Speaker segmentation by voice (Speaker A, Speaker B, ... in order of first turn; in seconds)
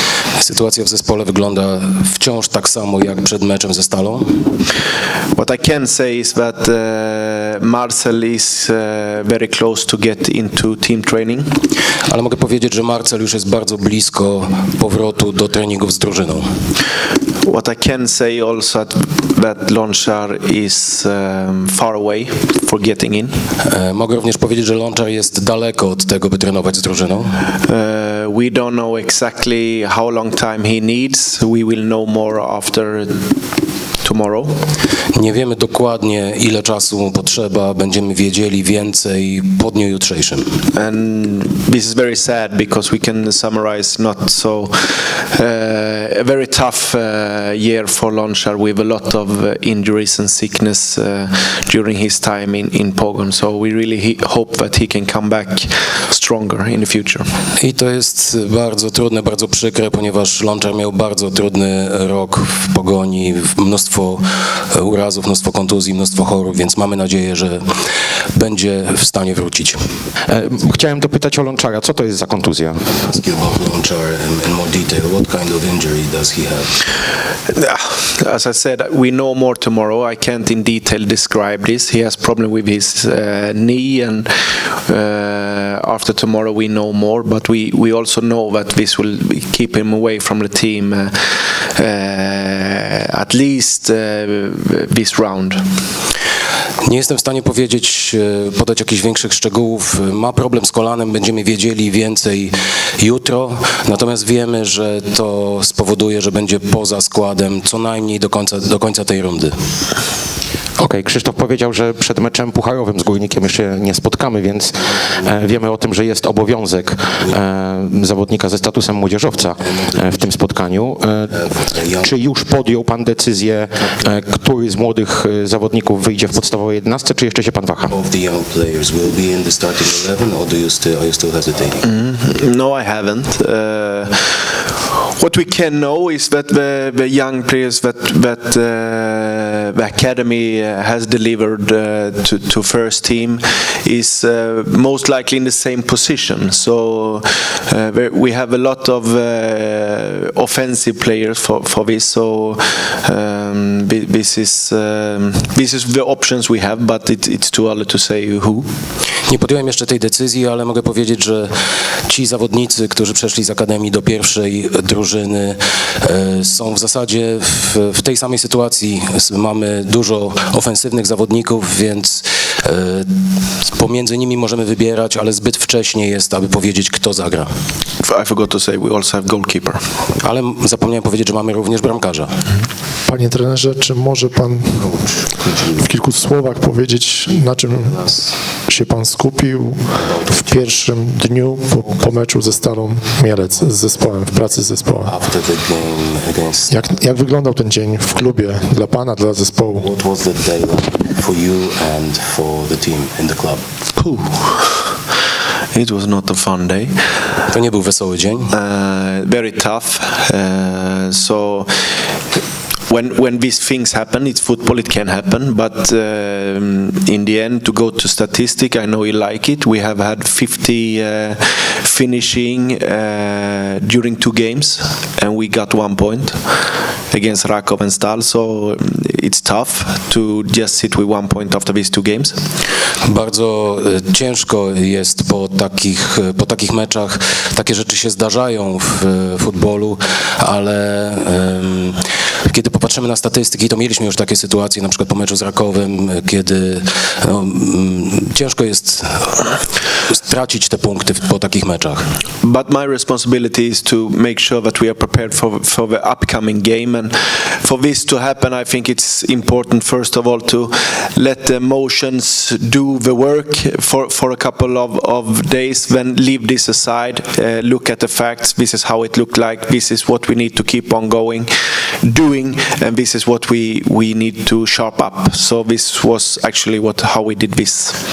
Speaker A: 0.4-4.5, 12.1-16.5, 23.6-27.4, 35.1-40.6, 57.6-67.7, 68.3-69.8, 72.9-76.7, 96.8-109.5, 119.7-120.2, 121.5-122.1, 127.9-131.8, 159.3-161.5, 162.1-173.1, 173.6-177.5, 180.2-182.3, 184.8-185.8, 190.0-190.8, 195.0-196.7, 199.8-203.6, 207.5-208.5, 233.0-249.5, 250.1-252.1
Speaker B: 5.3-11.5, 17.4-23.4, 27.6-33.3, 34.0-34.6, 40.7-57.3, 77.5-95.6, 131.8-134.3, 135.2-158.7, 178.0-179.8, 204.0-204.7, 205.7-207.1, 208.5-211.7, 212.9-226.4, 227.1-232.4, 252.4-271.5, 272.0-278.0
Speaker C: 70.2-72.9, 110.8-127.9
Speaker D: 183.1-184.9, 185.8-188.1, 188.7-195.1, 196.7-199.9